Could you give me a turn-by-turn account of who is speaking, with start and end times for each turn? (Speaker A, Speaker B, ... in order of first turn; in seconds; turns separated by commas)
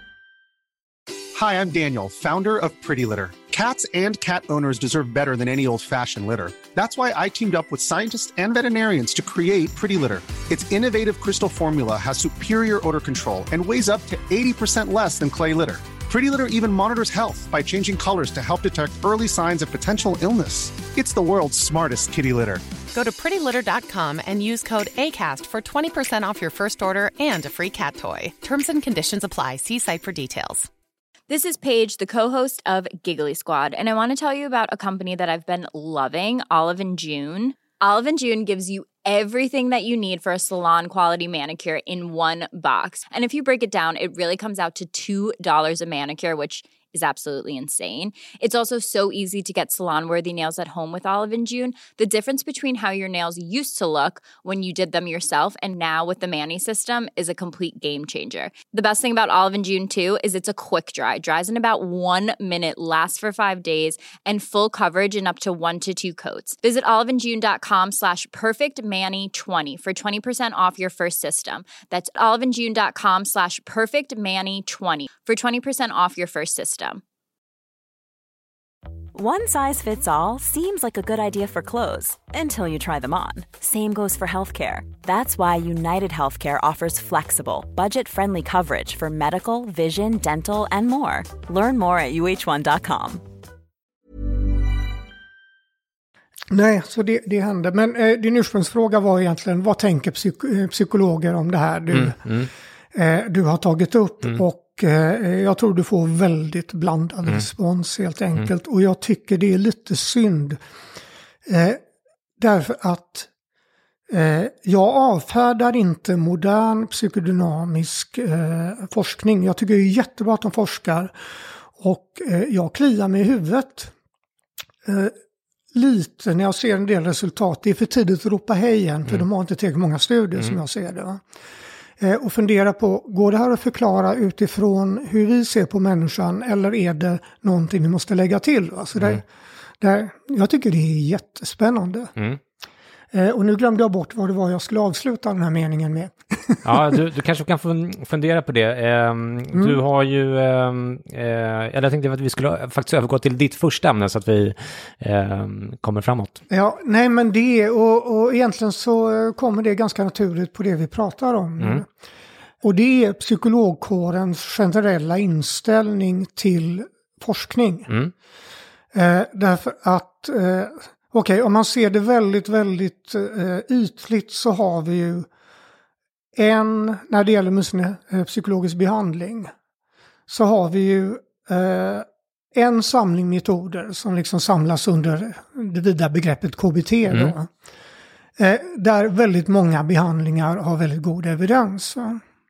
Speaker A: 1.4-22.6, Speaker B: 22.9-30.7, Speaker C: 31.3-77.0, Speaker D: 79.1-93.2, Speaker E: 96.5-102.3, Speaker F: 101.9-102.5, Speaker E: 102.9-110.6, Speaker E: 111.5-111.8, Speaker E: 112.4-113.3, Speaker E: 114.1-121.1, Speaker E: 121.8-123.9, Speaker E: 124.9-125.2, Speaker E: 125.7-131.2, Speaker E: 132.0-139.2, Speaker E: 139.8-142.1, Speaker E: 143.1-146.8, Speaker F: 146.6-156.4, Speaker E: 156.5-161.9, Speaker E: 162.6-167.9, Speaker E: 168.9-175.3, Speaker E: 176.3-179.5, Speaker E: 180.3-187.5, Speaker E: 188.4-192.2